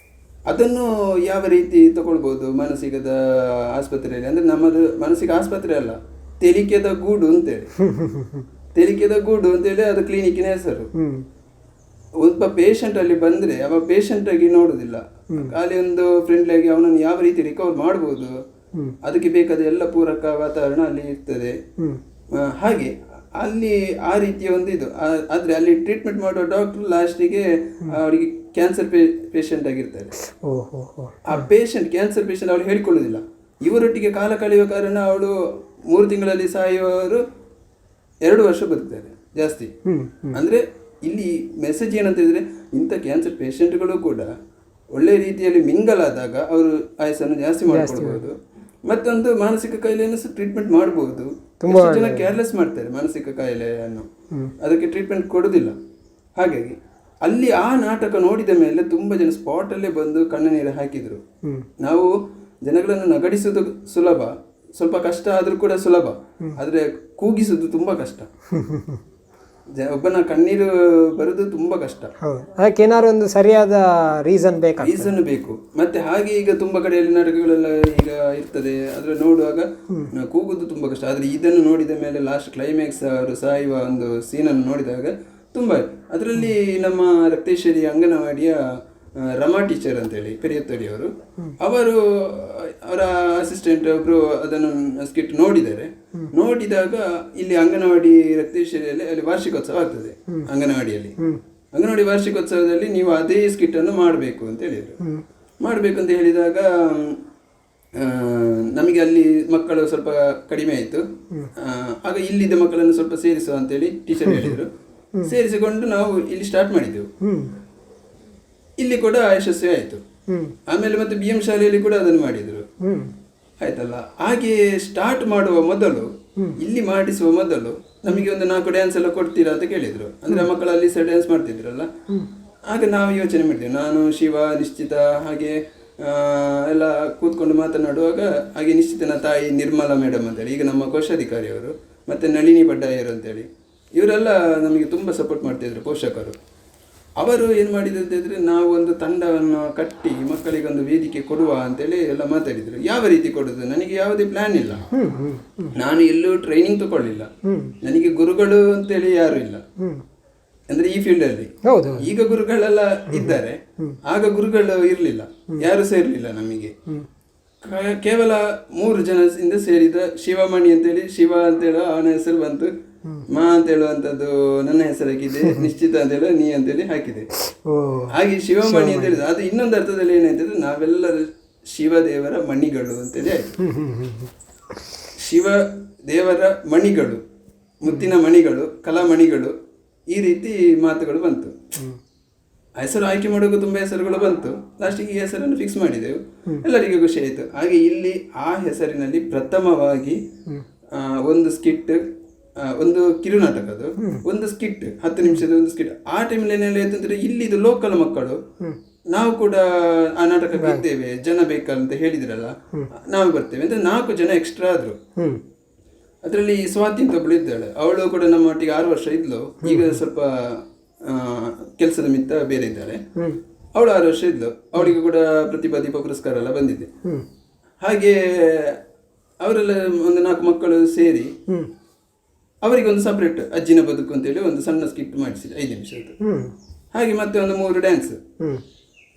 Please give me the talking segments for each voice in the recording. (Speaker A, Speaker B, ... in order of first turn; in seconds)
Speaker A: 0.5-7.7, 8.7-10.9, 12.2-18.3, 19.0-21.6, 22.4-30.1, 31.3-35.3, 35.9-37.2, 38.2-39.7, 40.4-44.3, 44.9-48.4, 48.9-54.1, 54.6-55.8, 56.4-61.2, 61.8-62.1, 62.6-68.3, 69.8-72.1, 74.8-88.6, 89.2-101.2, 101.8-105.0, 105.6-107.2, 108.0-111.0, 111.6-114.7, 115.2-117.1, 118.8-120.0, 120.7-122.7, 123.6-131.9, 132.7-146.4, 147.2-154.9, 155.8-157.3, 157.8-159.6, 160.7-166.7, 167.6-172.7, 173.3-177.3, 178.1-183.6, 185.2-187.2, 187.8-189.5, 190.1-191.6, 192.8-200.2, 200.9-202.0, 202.6-208.4, 209.1-215.0, 216.2-223.0, 223.8-226.9, 227.8-228.8, 229.4-231.3, 232.6-236.2, 236.9-238.2
Speaker B: 7.8-8.4, 11.0-11.2, 30.2-31.4, 39.9-40.4, 47.7-48.2, 51.6-52.3, 68.5-69.0, 72.2-75.2, 114.2-114.6, 117.2-117.5, 120.3-120.6, 122.8-123.1, 154.9-155.8, 157.5-157.8, 161.7-162.1, 163.1-164.0, 175.4-175.7, 177.7-179.2, 183.6-184.3, 204.0-204.2, 210.6-210.8, 219.6-220.0, 236.2-236.5